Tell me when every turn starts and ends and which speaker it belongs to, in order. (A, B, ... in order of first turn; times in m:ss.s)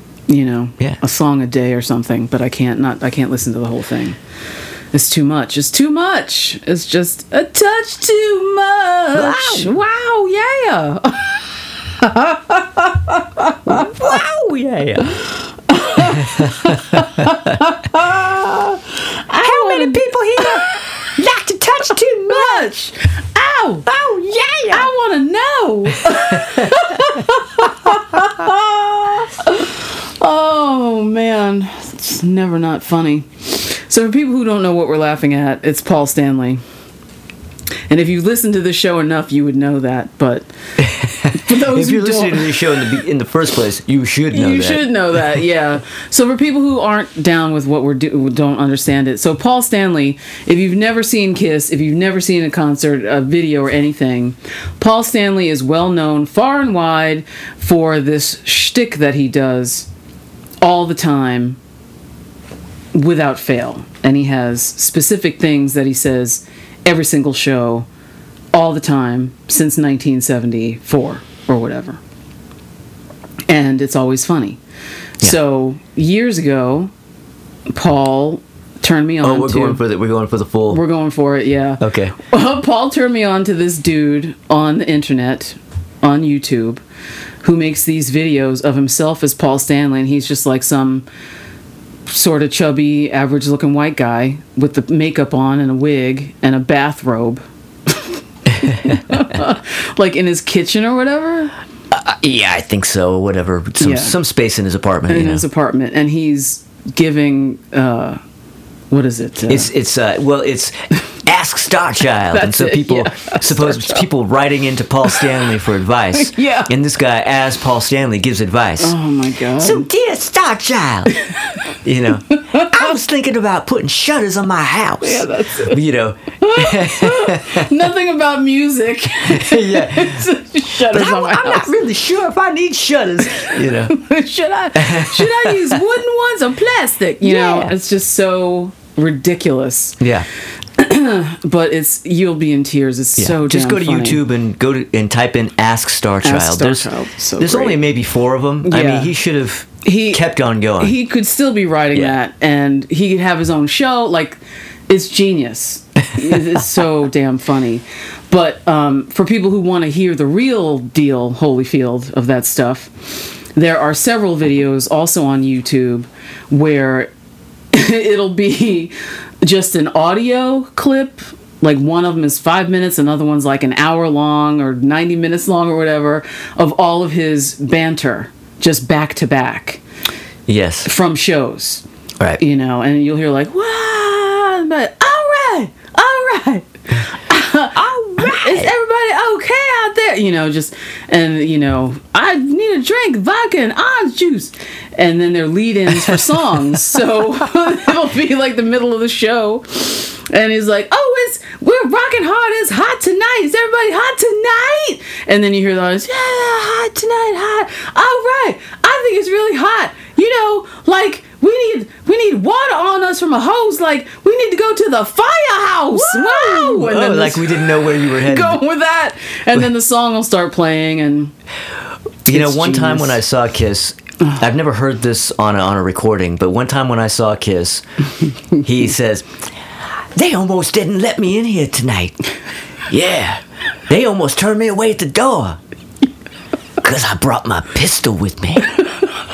0:00.3-0:04.2 A
0:04.9-0:11.5 A
0:09.1-0:09.7 B
0:12.0-0:13.9 A
0:13.7-0:15.2 B
0:15.7-0:20.9 A
0:16.0-0:17.5 B
0:19.4-0:22.6 B
0:22.2-0:23.9 A
0:23.8-0:24.9 B
0:24.7-0:36.6 A
0:26.4-0:26.7 B
0:37.9-0:40.5 A
0:40.8-0:44.9 B
0:41.3-0:42.9 A
0:44.3-0:59.9 A
1:00.6-1:01.6 A
1:02.9-1:07.9 A
1:08.5-1:12.0 A
1:13.5-1:14.6 A
1:15.2-1:16.9 A
1:17.7-1:19.8 A
1:19.2-1:20.8 B
1:20.7-1:26.8 A
1:21.8-1:22.1 B
1:27.4-1:31.0 A
1:32.1-1:41.5 A
1:41.9-1:45.4 B
1:43.8-1:44.1 A
1:45.1-1:48.2 A
1:48.9-1:49.7 A
1:49.5-1:59.0 B
1:52.3-1:54.0 A
1:56.2-1:56.7 A
1:58.8-1:59.9 A
1:59.6-2:01.1 B
2:01.8-2:07.7 B
2:02.5-2:02.9 A
2:05.0-2:05.8 A
2:06.4-2:11.7 A
2:09.2-2:10.3 B
2:10.8-2:14.0 B
2:13.4-2:20.0 A
2:14.7-2:15.8 B
2:17.2-2:17.7 B
2:20.0-2:20.2 B
2:20.8-2:24.2 A
2:23.2-2:31.0 B
2:26.2-2:27.8 A
2:28.6-2:29.1 A
2:29.8-2:30.2 A
2:30.8-2:47.1 A
2:47.7-2:59.8 A
3:00.5-3:00.9 B
3:00.8-3:01.8 A
3:02.4-3:41.3 A
3:07.8-3:08.6 B
3:35.9-3:38.6 B
3:42.2-3:47.8 B
3:42.3-3:43.2 A
3:48.6-3:49.3 B
3:50.1-3:52.2 B
3:52.9-3:55.6 B
3:56.8-3:58.8 B